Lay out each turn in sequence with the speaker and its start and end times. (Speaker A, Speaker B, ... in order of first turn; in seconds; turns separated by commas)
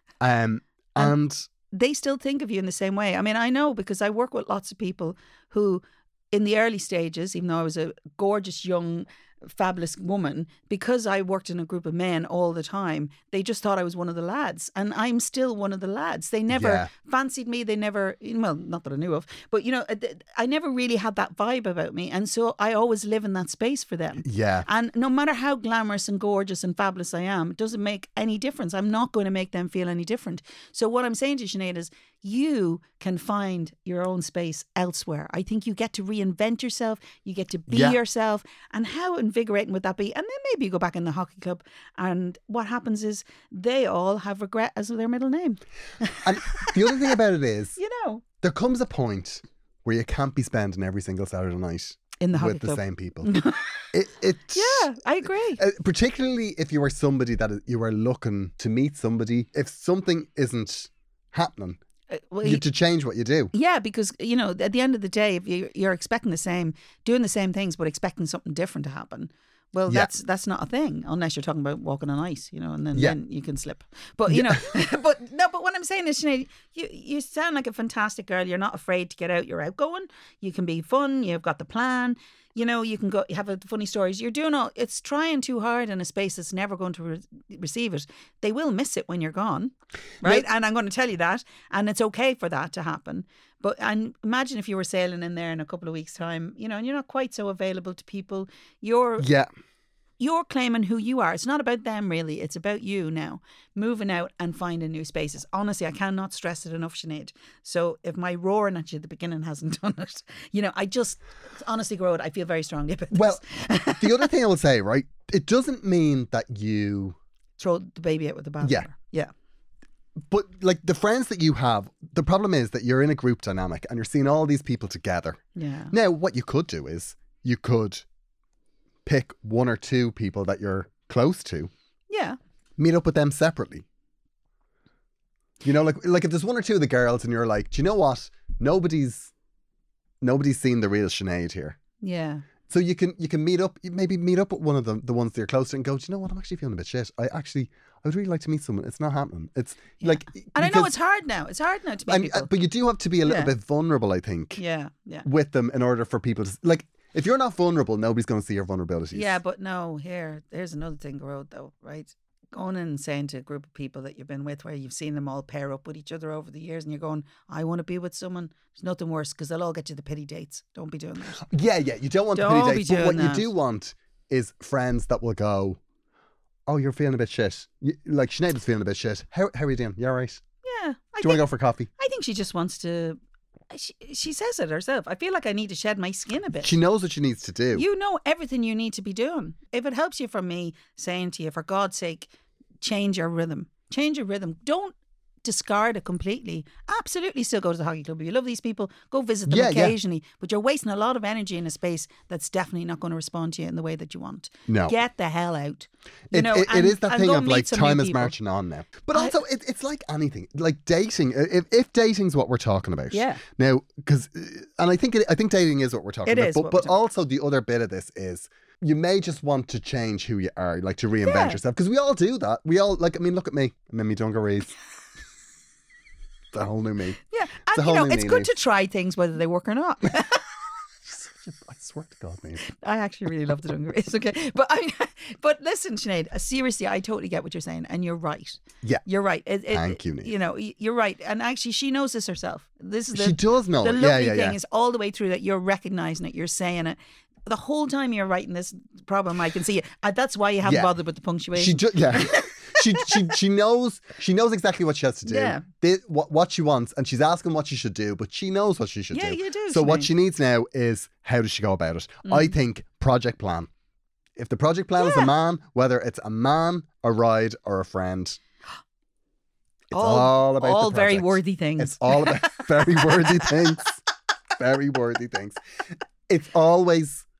Speaker A: 0.2-1.4, Speaker B: 1.7-47.0, Speaker A: 16.5-16.9, Speaker A: 24.2-24.7, Speaker A: 37.7-38.0, Speaker A: 46.2-47.8, Speaker B: 47.8-48.2, Speaker A: 48.4-53.3, Speaker B: 52.2-53.7, Speaker A: 53.9-61.8, Speaker B: 54.5-55.6, Speaker B: 62.1-62.6, Speaker A: 62.4-63.5, Speaker B: 63.5-99.3, Speaker A: 74.3-74.6, Speaker A: 99.2-99.5, Speaker B: 100.2-114.3, Speaker A: 113.1-113.4, Speaker A: 114.0-117.2, Speaker B: 117.6-119.3, Speaker A: 118.6-118.9, Speaker A: 120.3-128.0, Speaker B: 125.5-125.9, Speaker A: 129.1-131.7, Speaker B: 132.1-132.4, Speaker A: 132.8-133.8, Speaker A: 135.6-139.3, Speaker A: 140.2-141.8, Speaker B: 142.0-142.4, Speaker A: 142.7-150.9, Speaker B: 150.0-152.5, Speaker A: 152.1-154.6, Speaker B: 153.2-153.5, Speaker B: 154.6-155.2, Speaker A: 155.2-159.4, Speaker B: 159.1-171.4, Speaker A: 171.4-175.8, Speaker B: 172.3-173.5, Speaker A: 176.7-180.4, Speaker B: 180.6-181.4, Speaker A: 181.2-181.9, Speaker B: 182.0-183.2, Speaker B: 183.7-186.8, Speaker A: 186.6-187.8, Speaker B: 187.7-192.3, Speaker B: 192.8-208.3, Speaker A: 199.5-199.9, Speaker A: 204.7-204.9, Speaker A: 206.3-224.7, Speaker B: 213.1-213.4, Speaker B: 216.2-216.9, Speaker B: 221.2-221.6, Speaker A: 226.5-227.2, Speaker B: 227.3-230.4, Speaker A: 227.7-228.5, Speaker A: 231.1-232.6, Speaker B: 232.6-253.2, Speaker A: 239.7-240.3, Speaker A: 243.1-244.6, Speaker A: 250.6-250.9, Speaker A: 251.5-263.7, Speaker B: 255.2-255.7, Speaker B: 259.1-260.1, Speaker B: 262.2-262.5, Speaker A: 264.4-268.4, Speaker B: 265.0-265.3, Speaker A: 269.9-274.0, Speaker B: 269.9-272.6, Speaker A: 274.6-275.6, Speaker A: 276.3-277.2